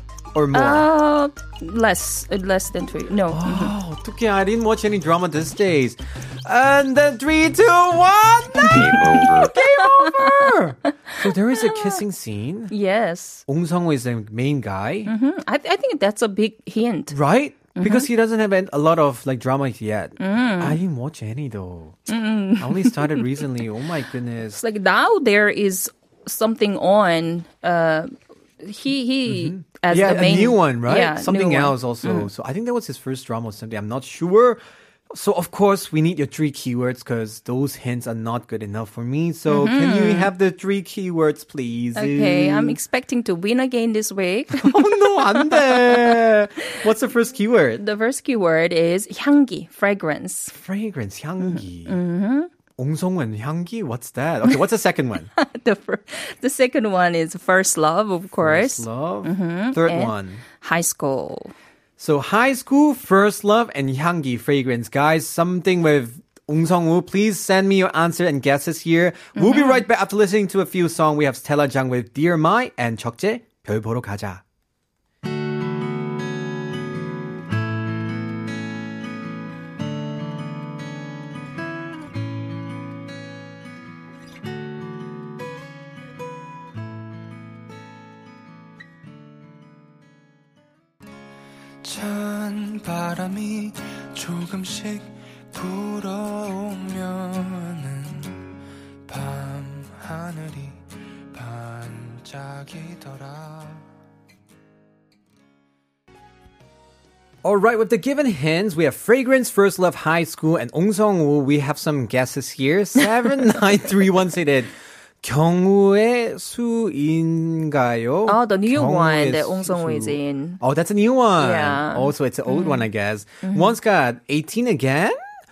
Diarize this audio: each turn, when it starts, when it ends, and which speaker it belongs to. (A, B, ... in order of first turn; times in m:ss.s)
0:00.3-0:00.9 A
0:00.5-0:03.7 B
0:03.3-0:12.7 A
0:08.6-0:10.5 B
0:11.1-0:12.0 B
0:12.7-0:13.4 B
0:13.5-0:15.1 A
0:15.0-0:17.2 B
0:17.1-0:22.0 A
0:17.8-0:18.1 B
0:20.2-0:20.8 B
0:22.1-0:23.4 B
0:22.6-0:24.6 A
0:24.6-0:32.3 B
0:29.3-0:34.6 A
0:35.1-0:42.8 A
0:39.5-0:40.3 B
0:42.0-0:46.2 B
0:44.5-0:47.8 A
0:47.8-0:50.5 B
0:50.5-0:52.0 A
0:51.4-0:52.5 B
0:52.8-0:55.3 A
0:55.4-1:01.5 B
0:58.4-1:00.4 A
1:02.0-1:14.4 A
1:09.4-1:09.9 B
1:31.8-1:38.4 C
1:39.0-1:43.9 C
1:47.4-2:05.3 A
1:58.3-2:00.6 B
2:01.4-2:02.9 B
2:03.4-2:03.8 B